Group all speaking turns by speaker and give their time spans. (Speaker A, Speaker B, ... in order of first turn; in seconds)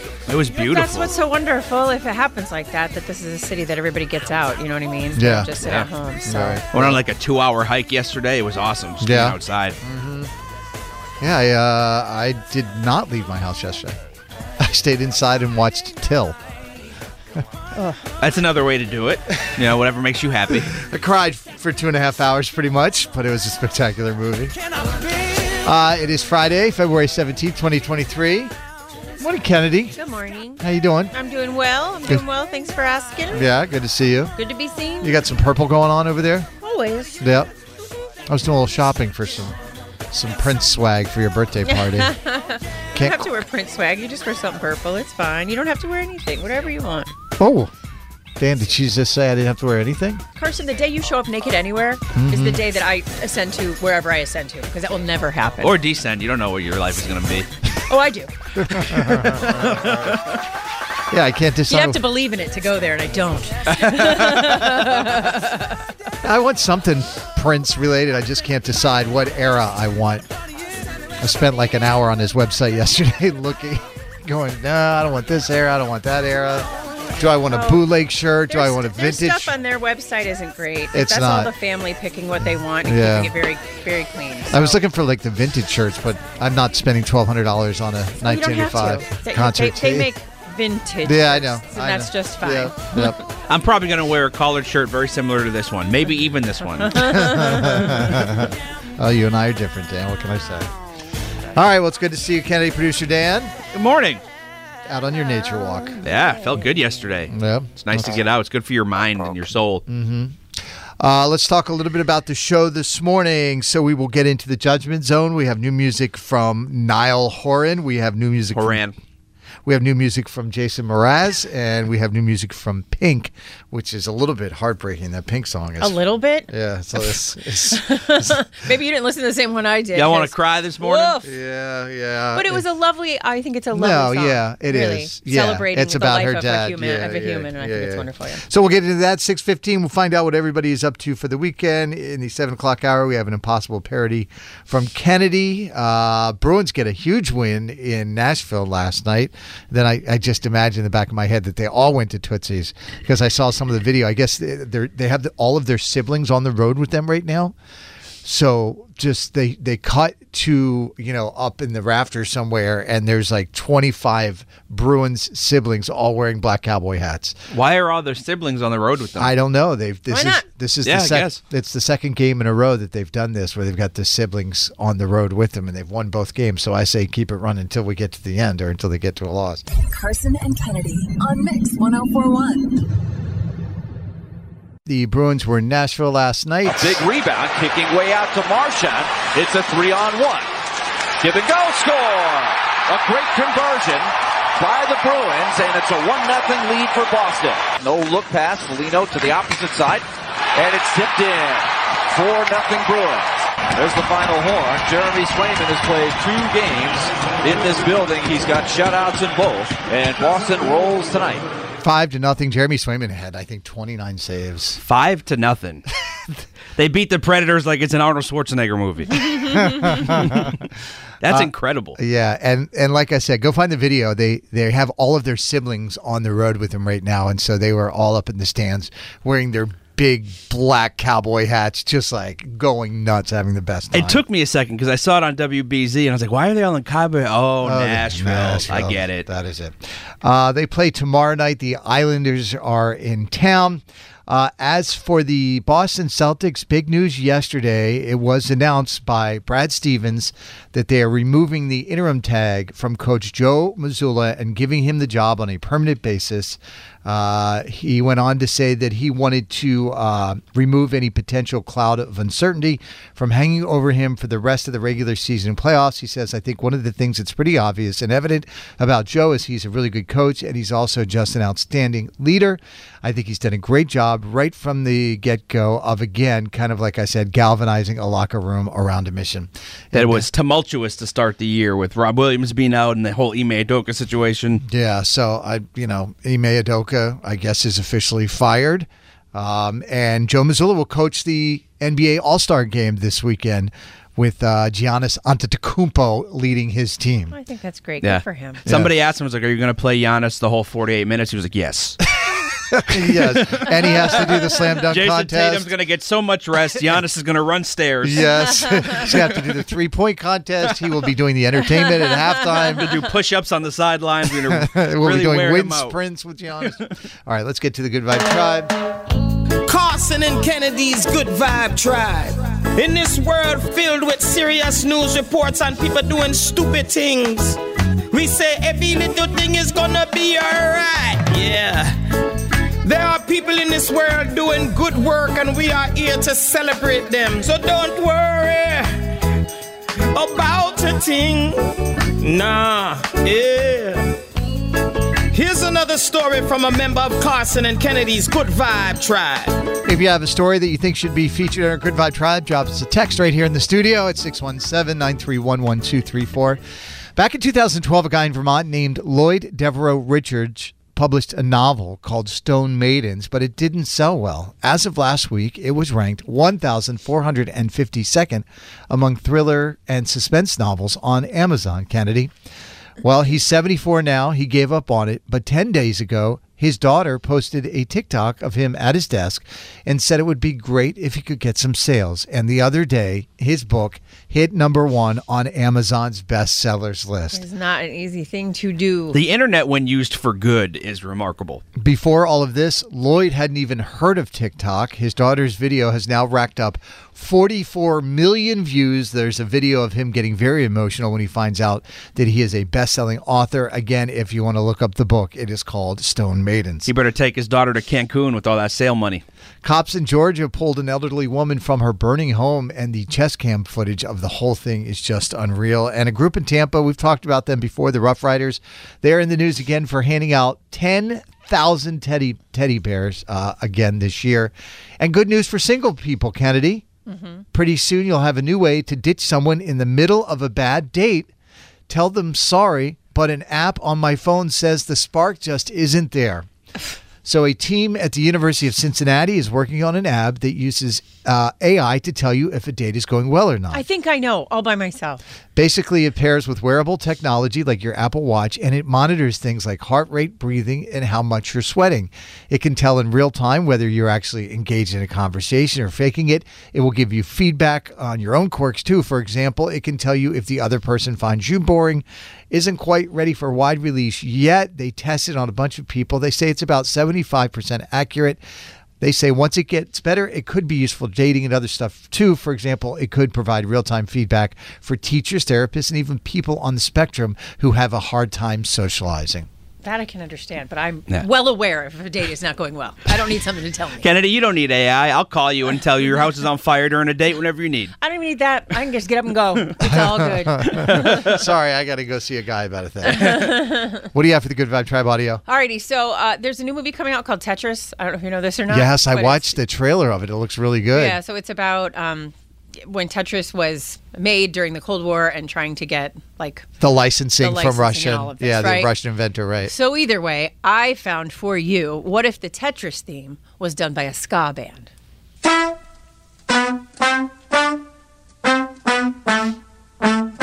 Speaker A: 0.3-1.1, 5.6-5.9, 6.7-9.8, 18.2-20.7, 55.6-57.5, 59.7-60.1, 64.0-64.5, 93.5-97.5, 103.7-104.2, 106.0-109.8, 118.5-119.0, 129.9-131.2, 167.5-169.3, 170.8-171.4, 214.8-215.8, 216.8-220.6, 221.2-222.0, 233.9-239.3, 279.9-284.6, 298.0-302.0, 302.9-309.0, 312.6-316.0, 389.1-391.6, 406.9-409.2, 484.0-487.9, 490.7-491.3, 493.2-493.5
Speaker B: 0.5-6.6, 29.9-33.5, 34.4-35.1, 36.6-37.2, 41.6-47.1, 50.4-55.8, 57.9-58.3, 58.9-59.7, 61.7-65.7, 77.4-77.9, 78.5-84.8, 88.2-93.1, 97.0-97.8, 125.8-126.5, 127.7-131.2, 132.3-138.4, 170.1-170.4, 297.3-298.6, 387.3-389.2, 427.1-427.4, 443.7-445.2, 479.8-484.1, 488.0-491.2, 493.3-494.0, 495.5-499.6, 500.9-506.7, 507.4-508.9, 509.6-514.9
Speaker C: 5.1-5.5, 6.2-7.0, 9.0-10.3, 11.2-14.0, 14.6-16.4, 20.7-24.6, 25.6-28.5, 29.2-30.0, 30.6-31.1, 33.3-34.4, 35.0-36.5, 37.2-37.5, 38.3-39.6, 40.1-42.2, 43.0-43.3, 47.4-47.7, 48.4-50.2, 52.1-52.6, 58.6-60.2, 61.1-62.0, 66.2-70.3, 71.2-79.5, 80.9-81.5, 82.4-83.4, 84.5-90.1, 91.0-93.2, 97.0-100.7, 101.5-103.5, 104.9-106.0, 107.3-108.2, 109.9-110.4, 111.0-118.8, 119.7-126.0, 126.5-128.4, 131.2-132.7, 133.7-157.5, 158.2-167.4, 169.2-179.6, 184.9-187.0, 211.8-214.8, 219.4-220.6, 221.2-234.2, 237.6-280.3, 284.6-297.4, 298.7-298.9, 302.7-305.7, 308.0-312.9, 314.5-318.7, 349.9-356.6, 357.2-372.3, 373.0-387.4, 391.8-406.9, 409.6-426.9, 427.5-431.3, 431.9-436.5, 437.2-443.9, 445.6-468.4, 469.0-479.5, 489.8-493.4, 494.1-495.4, 498.7-501.2, 506.8-509.7
Speaker D: 179.8-182.8
Speaker E: 186.7-190.5, 191.2-211.5
Speaker F: 319.7-327.6, 328.1-331.9, 332.8-338.9, 340.1-341.7, 342.2-344.1, 345.3-349.6